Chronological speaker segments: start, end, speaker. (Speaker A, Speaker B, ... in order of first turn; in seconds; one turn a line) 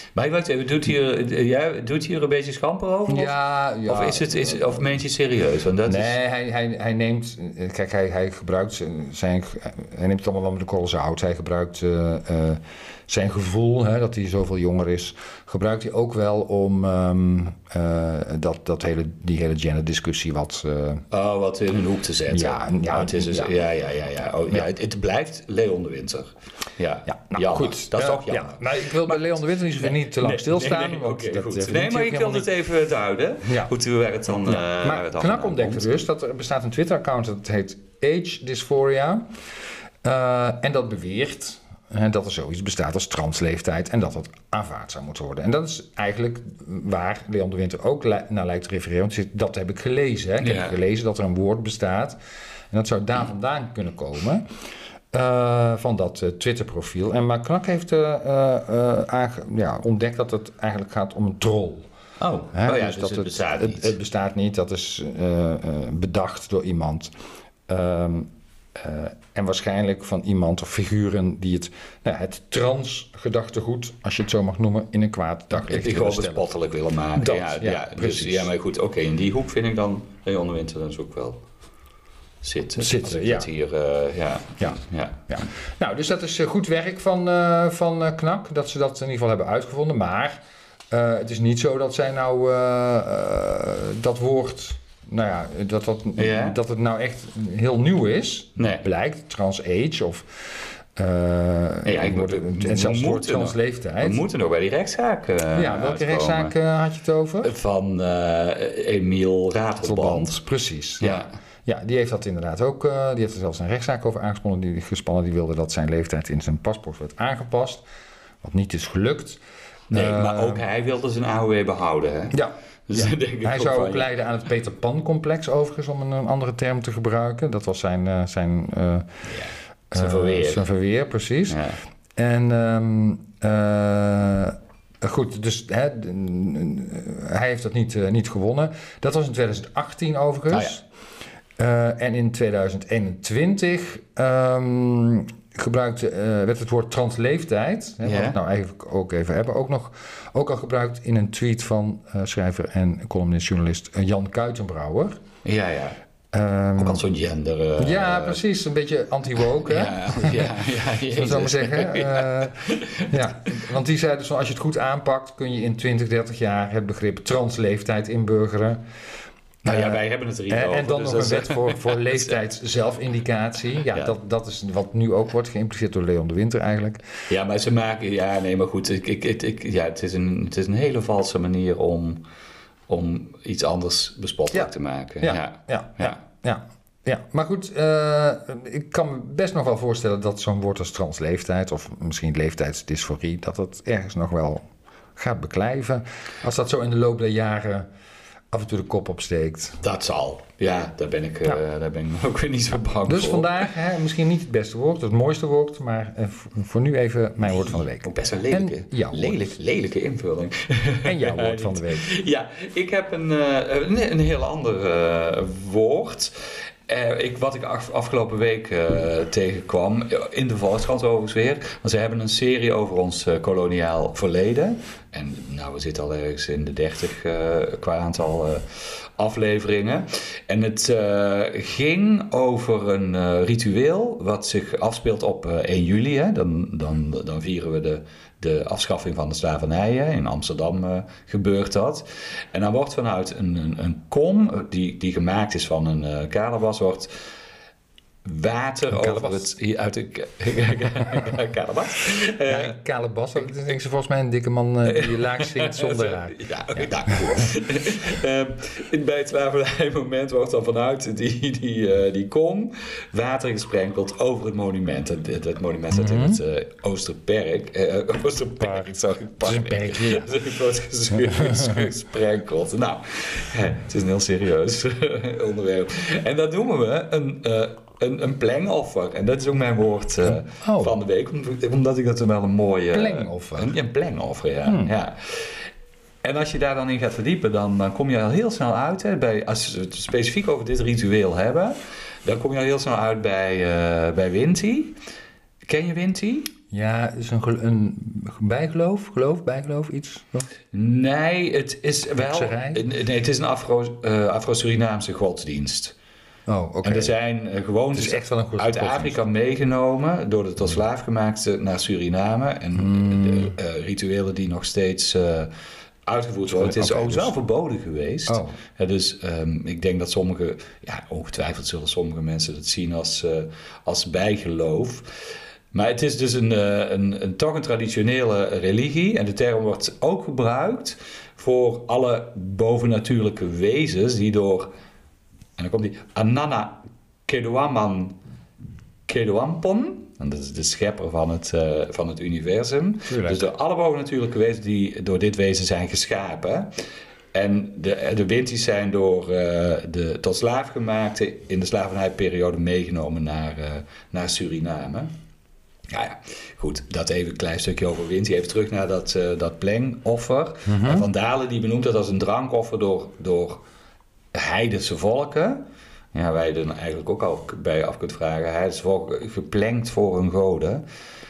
Speaker A: 0.1-6.2
Speaker B: 3.1-4.9
Speaker B: 5.8-21.0
Speaker A: 21.1-29.2
Speaker B: 22.3-23.5
Speaker B: 27.1-32.5
Speaker A: 29.8-36.0
Speaker B: 33.5-33.7
Speaker B: 34.4-39.2
Speaker B: 40.0-52.2
Speaker A: 50.4-50.8
Speaker B: 52.7-54.4
Speaker B: 55.1-61.9
Speaker A: 62.2-64.0
Speaker B: 62.5-67.1
Speaker B: 67.7-76.4
Speaker A: 75.5-81.4
Speaker B: 77.1-78.5
Speaker A: 82.4-85.3
Speaker B: 82.8-83.5
Speaker B: 85.3-104.2
Speaker A: 96.2-96.6
Speaker A: 98.6-98.8
Speaker A: 101.8-106.5
Speaker B: 105.5-107.5
Speaker A: 107.4-110.4
Speaker B: 109.8-117.8
Speaker A: 111.0-111.3
Speaker B: 118.4-119.4
Speaker A: 119.9-124.1
Speaker B: 119.9-120.6
Speaker B: 122.3-129.2
Speaker A: 129.2-130.6
Speaker B: 129.9-131.6
Speaker A: 131.5-131.8
Speaker B: 132.2-140.8
Speaker A: 140.5-140.8
Speaker B: 141.6-155.2
Speaker A: 148.0-148.4
Speaker A: 155.4-156.0
Speaker B: 156.3-157.0
Speaker A: 156.8-158.4
Speaker B: 157.8-160.6
Speaker A: 159.6-163.6
Speaker B: 161.1-168.8
Speaker A: 169.6-172.4
Speaker B: 169.7-177.0
Speaker A: 177.3-182.2
Speaker A: 182.9-186.2
Speaker B: 184.5-194.6
Speaker B: 195.2-197.9
Speaker B: 198.5-199.8
Speaker A: 199.8-203.7
Speaker B: 203.1-209.5
Speaker A: 207.4-247.1
Speaker B: 211.0-212.1
Speaker A: 248.2-252.8
Speaker B: 248.9-249.5
Speaker B: 252.5-257.4
Speaker A: 254.8-285.7
Speaker B: 265.9-266.4
Speaker B: 268.6-268.9
Speaker B: 269.4-270.3
Speaker B: 271.2-271.8
Speaker B: 280.5-280.9
Speaker B: 282.9-283.7
Speaker A: 286.2-294.9
Speaker A: 295.7-296.5
Speaker B: 296.7-300.5
Speaker A: 300.7-305.9
Speaker B: 302.2-302.8
Speaker B: 306.5-307.1
Speaker A: 306.8-315.5
Speaker B: 307.9-309.2
Speaker B: 312.8-313.5
Speaker A: 316.1-325.1
Speaker B: 316.5-317.3
Speaker B: 318.3-318.6
Speaker A: 325.7-334.7
Speaker A: 335.6-338.1
Speaker A: 339.1-346.7
Speaker B: 343.1-343.4
Speaker A: 347.3-355.1
Speaker A: 355.9-363.6
Speaker B: 360.6-361.1
Speaker A: 364.3-365.6
Speaker A: 366.1-370.8